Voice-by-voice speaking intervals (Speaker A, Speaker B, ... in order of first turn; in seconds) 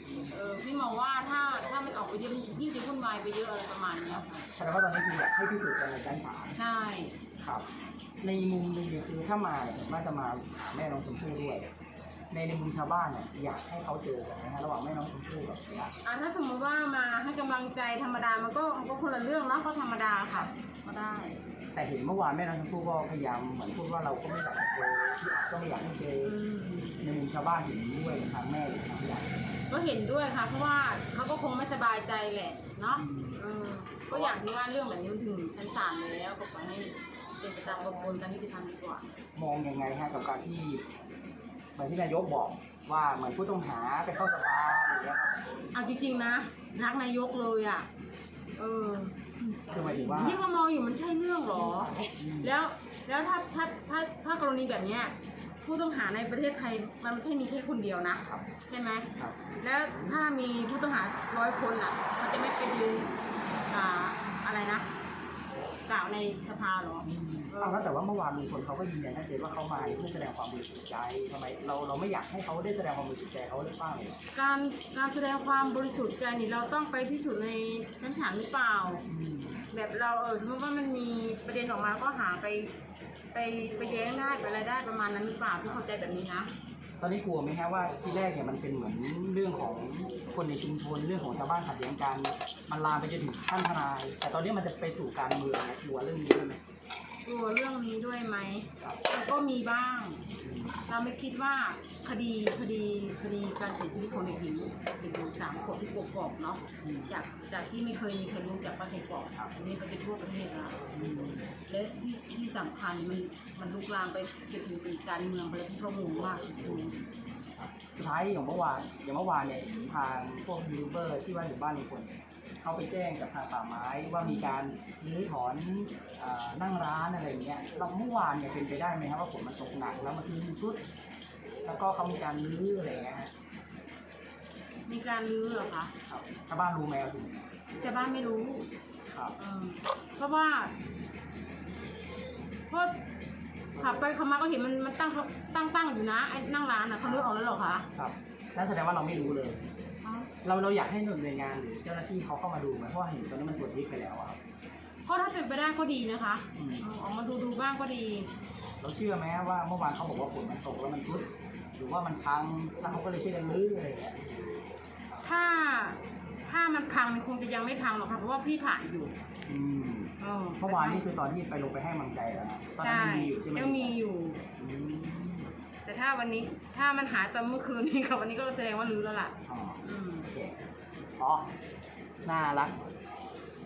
Speaker A: 0.2-4.5, 6.5-7.1, 16.0-21.4, 26.2-27.0, 29.7-39.1, 45.7-47.9, 48.6-64.8, 65.8-67.9, 74.3-79.0, 79.7-82.7, 83.3-86.5, 97.2-100.2, 100.9-110.8, 111.7-117.0, 124.2-124.5, 134.9-135.9, 137.8-138.7, 139.4-140.7, 142.7-142.9, 143.8-147.9, 150.0-150.3, 155.1-158.3, 165.2-169.1, 170.2-171.1, 172.8-174.4, 175.8-180.3
Speaker B: 4.5-6.5, 7.4-7.7, 8.2-11.7, 12.3-15.9, 21.7-26.3, 27.0-29.4, 32.9-33.4, 34.1-34.4, 39.3-40.8, 41.8-45.5, 49.7-50.4, 52.2-52.5, 59.2-59.4, 67.0-74.2, 79.1-79.7, 87.0-96.6, 100.4-100.8, 106.8-107.1, 110.9-111.5, 116.6-130.8, 131.6-133.3, 136.1-137.5, 139.1-139.3, 147.9-149.6, 150.4-154.4, 156.5-156.9, 158.8-164.2, 169.5-174.0, 174.6-175.5, 179.5-180.6, 181.2-181.5, 182.2-182.8